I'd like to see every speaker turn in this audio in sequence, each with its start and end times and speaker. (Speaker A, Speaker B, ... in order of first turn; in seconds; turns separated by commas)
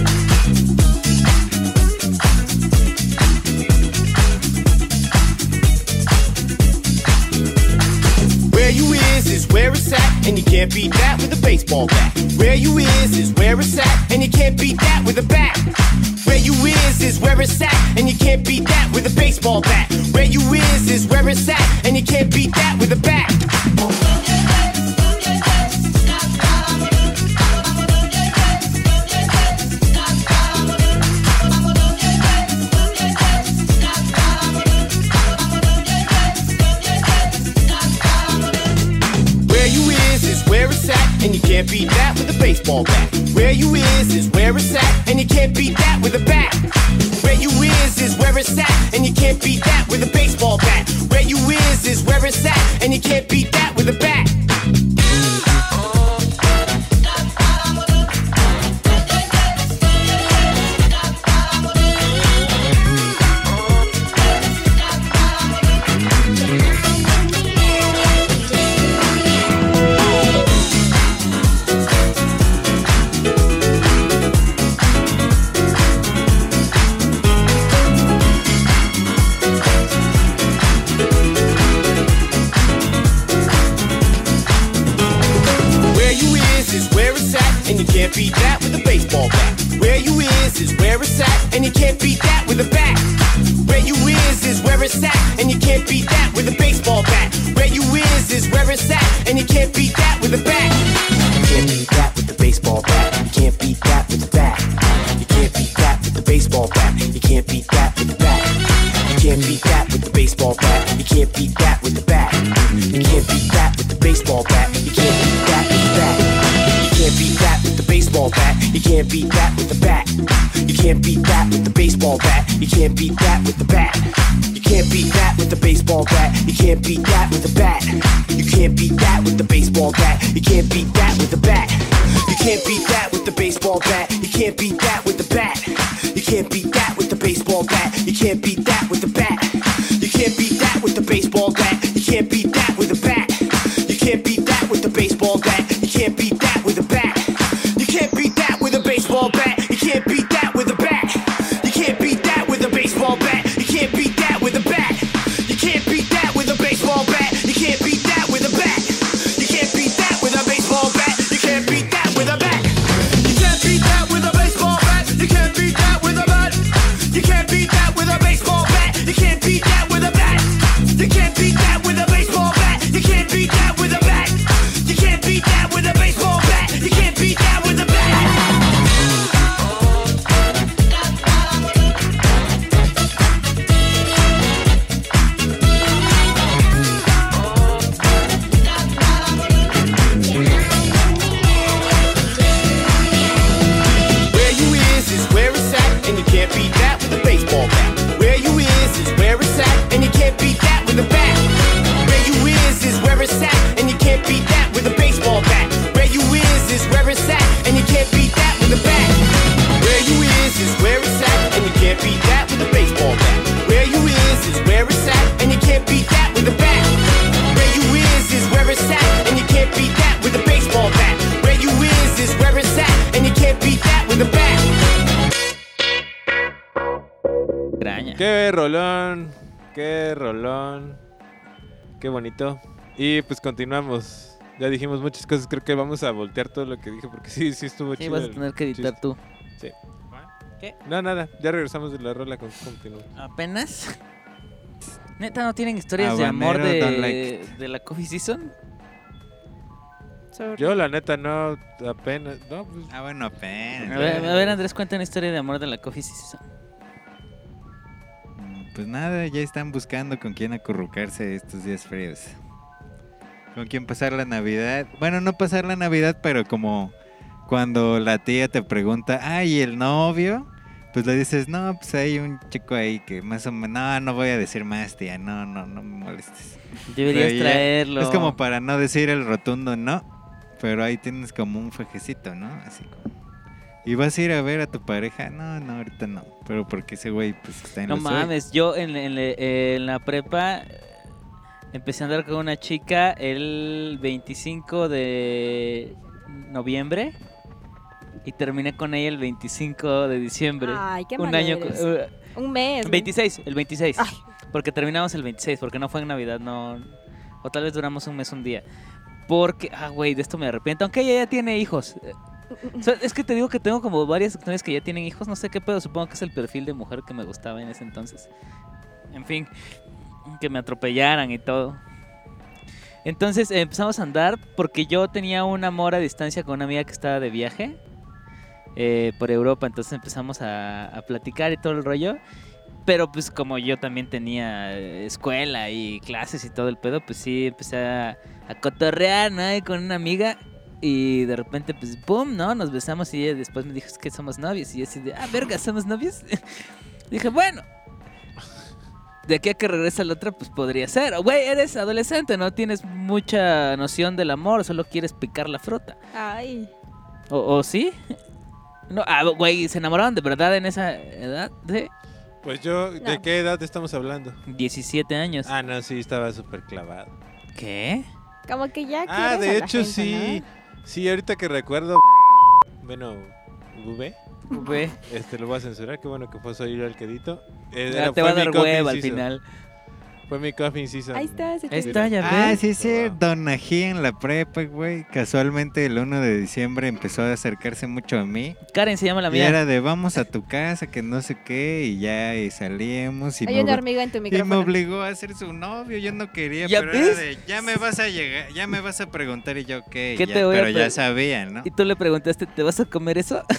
Speaker A: 8.5-23.5, Speaker A: 39.4-54.4, Speaker A: 85.9-178.6, Speaker A: 194.3-224.8, Speaker B: 227.8-228.2, Speaker C: 228.2-231.0, Speaker C: 232.0-239.0, Speaker B: 238.0-239.2, Speaker C: 239.6-240.3, Speaker C: 240.8-243.1, Speaker B: 243.2-244.0, Speaker B: 245.2-248.5, Speaker D: 246.0-247.5, Speaker E: 250.3-250.8, Speaker C: 250.6-252.9, Speaker D: 252.9-254.5, Speaker B: 253.9-256.4, Speaker C: 253.9-254.5, Speaker D: 258.4-262.4, Speaker D: 263.5-266.9, Speaker D: 267.5-280.1, Speaker B: 276.9-278.4, Speaker D: 280.6-283.1, Speaker D: 283.9-288.3, Speaker B: 287.9-291.0, Speaker B: 291.7-297.1, Speaker B: 298.2-302.1, Speaker E: 300.6-303.1, Speaker B: 302.8-308.6, Speaker B: 309.3-312.1, Speaker E: 312.6-312.9, Speaker B: 312.8-318.3, Speaker B: 319.1-319.5, Speaker B: 320.3-321.8, Speaker B: 323.1-327.8, Speaker B: 328.8-332.2, Speaker B: 332.9-347.6, Speaker B: 349.3-356.0, Speaker E: 356.1-356.7, Speaker B: 357.3-358.2, Speaker B: 358.9-361.9, Speaker C: 362.4-364.4, Speaker B: 364.5-365.5, Speaker C: 365.5-367.1, Speaker B: 367.6-368.1, Speaker E: 368.5-370.4, Speaker C: 369.1-372.0, Speaker C: 372.8-374.2, Speaker B: 374.5-375.0, Speaker E: 374.5-374.8, Speaker C: 375.1-379.2, Speaker B: 377.9-379.4, Speaker C: 380.3-383.2, Speaker E: 381.1-382.1, Speaker B: 381.7-382.6, Speaker D: 382.2-388.6, Speaker B: 388.7-389.6, Speaker D: 389.3-401.7, Speaker E: 393.4-394.7, Speaker B: 396.6-397.2, Speaker B: 400.2-401.0, Speaker B: 401.6-403.4